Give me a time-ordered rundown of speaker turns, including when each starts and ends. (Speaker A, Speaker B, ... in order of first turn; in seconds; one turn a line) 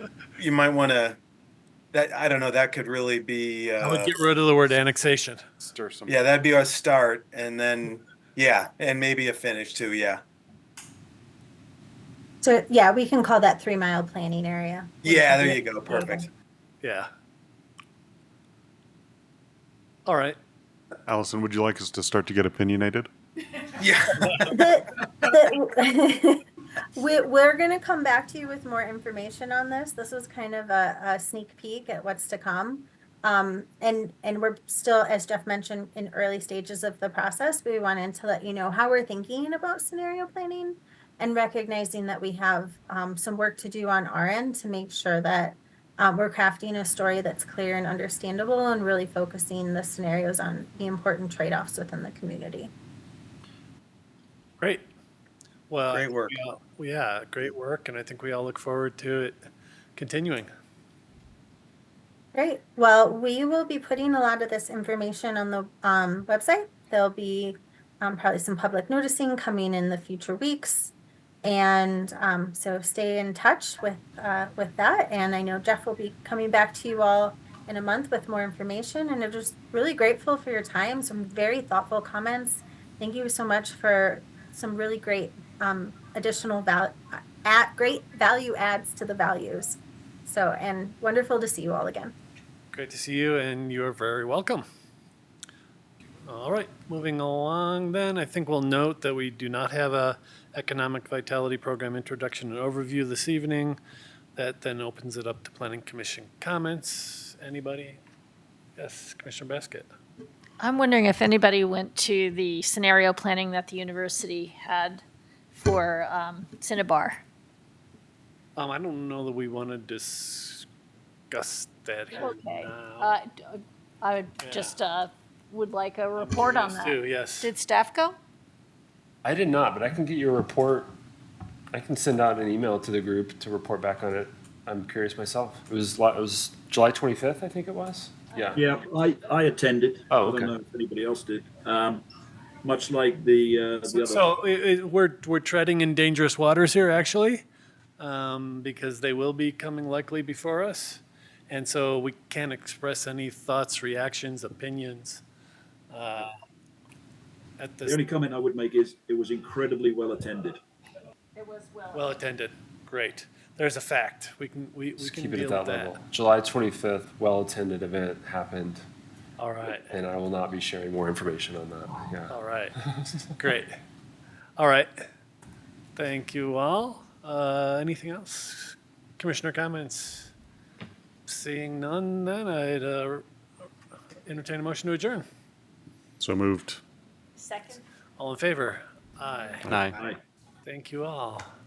Speaker A: 0.4-1.2
Speaker A: 1.9-4.2
Speaker B: 3.8-5.4
Speaker C: 5.6-6.2
Speaker A: 6.1-10.2
Speaker D: 12.4-16.2
Speaker A: 15.0-16.3
Speaker B: 16.8-17.1
Speaker B: 20.1-20.4
Speaker C: 21.1-23.1
Speaker A: 23.8-24.5
Speaker D: 24.5-26.4
Speaker D: 26.9-52.7
Speaker B: 54.6-54.9
Speaker B: 55.7-59.4
Speaker A: 55.9-56.4
Speaker B: 60.0-60.5
Speaker D: 62.3-70.9
Speaker D: 71.4-92.2
Speaker B: 92.7-94.6
Speaker B: 96.3-103.8
Speaker B: 104.3-108.0
Speaker B: 108.8-109.9
Speaker E: 110.6-115.0
Speaker E: 115.5-117.2
Speaker B: 118.5-120.7
Speaker B: 121.3-123.1
Speaker E: 122.1-128.2
Speaker B: 124.4-124.8
Speaker B: 126.2-127.5
Speaker F: 129.2-130.9
Speaker F: 131.7-138.6
Speaker G: 138.6-142.0
Speaker F: 140.1-140.5
Speaker G: 142.6-144.3
Speaker B: 143.9-147.4
Speaker B: 148.0-155.2
Speaker B: 155.9-156.3
Speaker B: 157.6-158.0
Speaker G: 157.8-160.6
Speaker E: 161.3-162.2
Speaker B: 161.9-166.0
Speaker F: 165.0-168.8
Speaker B: 169.4-169.9
Speaker F: 169.8-172.4
Speaker B: 172.3-173.8
Speaker B: 174.6-175.0
Speaker B: 175.9-180.3
Speaker B: 181.3-183.2
Speaker B: 184.2-185.2
Speaker C: 186.2-186.8
Speaker E: 187.4-187.8
Speaker B: 188.2-189.7
Speaker B: 190.6-191.4